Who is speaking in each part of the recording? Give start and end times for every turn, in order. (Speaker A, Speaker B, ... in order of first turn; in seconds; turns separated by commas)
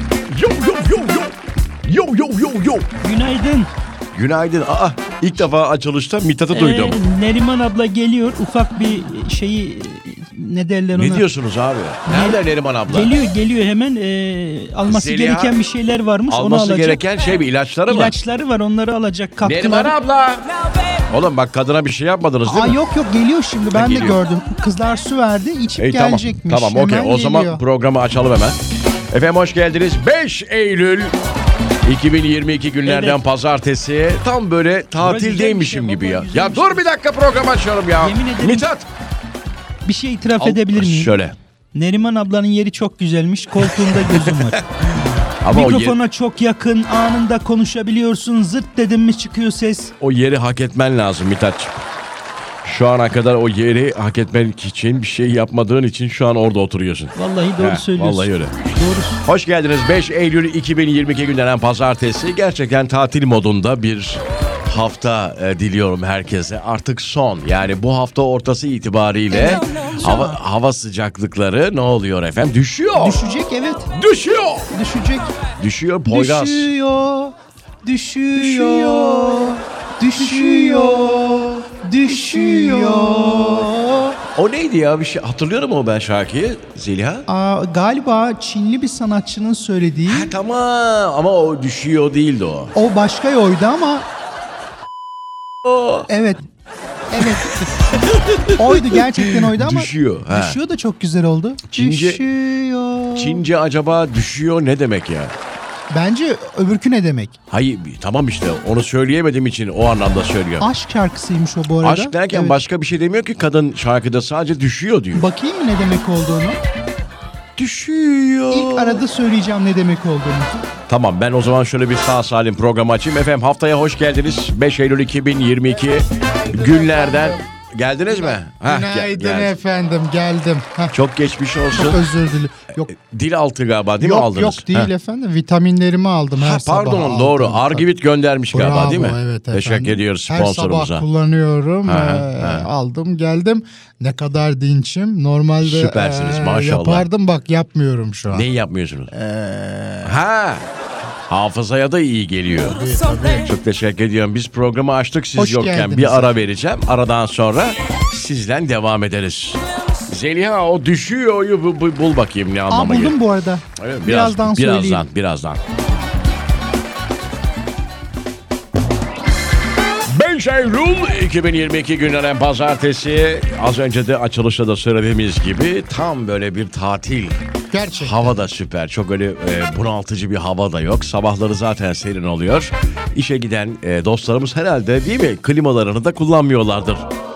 Speaker A: 0.3-2.9, Speaker B: 3.0-3.7, Speaker A: 4.1-7.0, Speaker B: 6.5-11.3, Speaker A: 10.9-13.2, Speaker B: 12.1-17.0, Speaker A: 14.9-15.6, Speaker A: 16.3-18.2, Speaker B: 17.9-19.9, Speaker A: 19.4-20.5, Speaker A: 21.1-22.8, Speaker B: 22.5-22.9, Speaker C: 22.7-27.6, Speaker B: 23.6-25.1, Speaker A: 23.7-24.2, Speaker A: 25.8-31.2, Speaker A: 31.8-38.9, Speaker B: 32.9-33.2, Speaker B: 35.0-36.9, Speaker B: 38.0-38.7, Speaker B: 39.9-41.2, Speaker A: 40.4-41.4, Speaker B: 41.8-44.6, Speaker A: 43.6-46.0, Speaker B: 45.5-49.9, Speaker A: 50.0-51.8, Speaker A: 52.6-58.6, Speaker B: 57.2-59.2, Speaker A: 59.2-73.3, Speaker C: 69.3-70.3, Speaker C: 73.0-73.9, Speaker A: 73.9-74.7, Speaker C: 74.7-75.3, Speaker A: 75.6-76.7, Speaker B: 76.1-77.2, Speaker C: 76.9-77.3, Speaker B: 77.9-79.5, Speaker C: 77.9-84.2, Speaker A: 78.6-79.5, Speaker B: 80.0-83.4, Speaker A: 82.9-83.7, Speaker A: 84.3-87.3, Speaker C: 87.3-90.3, Speaker A: 90.1-92.7, Speaker C: 92.8-94.1, Speaker A: 95.7-96.0, Speaker C: 96.1-96.4, Speaker C: 97.1-97.7, Speaker A: 97.8-100.6, Speaker C: 98.5-103.4, Speaker A: 101.7-102.2, Speaker A: 103.1-105.3, Speaker C: 105.9-107.4, Speaker A: 107.5-110.7, Speaker C: 110.6-112.6, Speaker A: 111.8-115.3, Speaker C: 115.1-116.6, Speaker A: 117.6-119.0, Speaker C: 118.5-120.5, Speaker A: 120.9-129.5, Speaker C: 128.6-131.0, Speaker A: 130.9-132.0, Speaker C: 131.7-132.9, Speaker A: 132.8-134.9, Speaker C: 134.0-137.9, Speaker A: 136.3-141.1, Speaker C: 138.5-148.5, Speaker A: 141.8-142.7, Speaker A: 145.6-147.1, Speaker A: 148.3-149.1, Speaker C: 149.1-150.2, Speaker A: 150.0-150.7, Speaker A: 151.3-152.8, Speaker C: 152.6-153.5, Speaker A: 153.4-163.2, Speaker C: 155.4-156.5, Speaker C: 162.7-165.0, Speaker A: 163.8-165.6, Speaker A: 170.1-187.1, Speaker C: 177.7-178.4